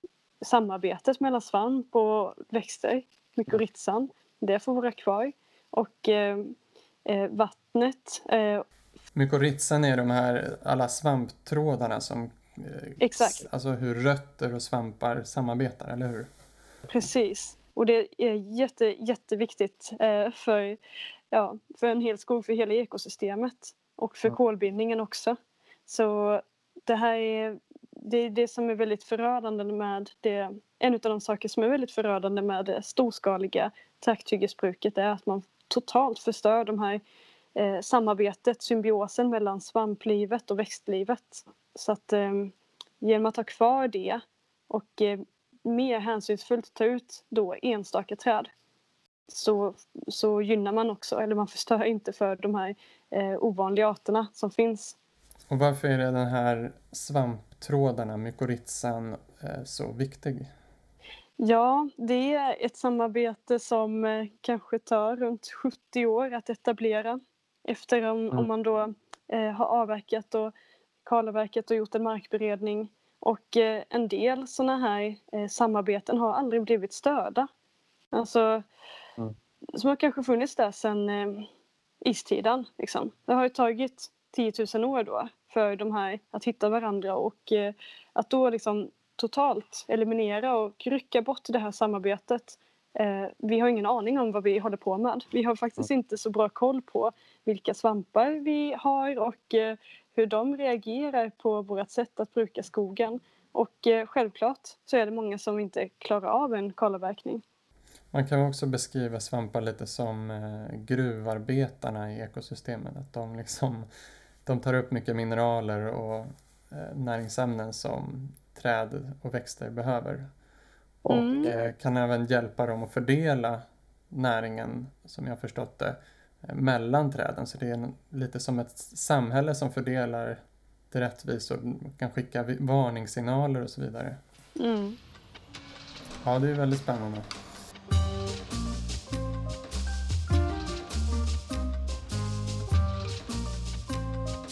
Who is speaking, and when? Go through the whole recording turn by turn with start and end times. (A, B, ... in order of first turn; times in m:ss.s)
0:00.4-0:06.6 A
0:07.1-0:08.6 A
0:09.1-0:16.3 B
0:13.0-0:13.4 A
0:16.9-0:20.8 A
0:21.3-0:37.0 A
0:37.6-0:48.5 A
0:49.3-0:55.0 A
0:55.5-1:00.5 B
1:01.4-1:10.5 A
1:11.0-1:17.5 A
1:18.1-1:18.6 A
1:19.7-1:21.5 A
1:22.0-1:47.4 A
1:48.1-1:53.9 B
1:54.4-2:00.3 B
2:01.1-2:01.5 A
2:01.4-2:14.2 B
2:14.6-2:15.0 A
2:16.2-2:17.3 B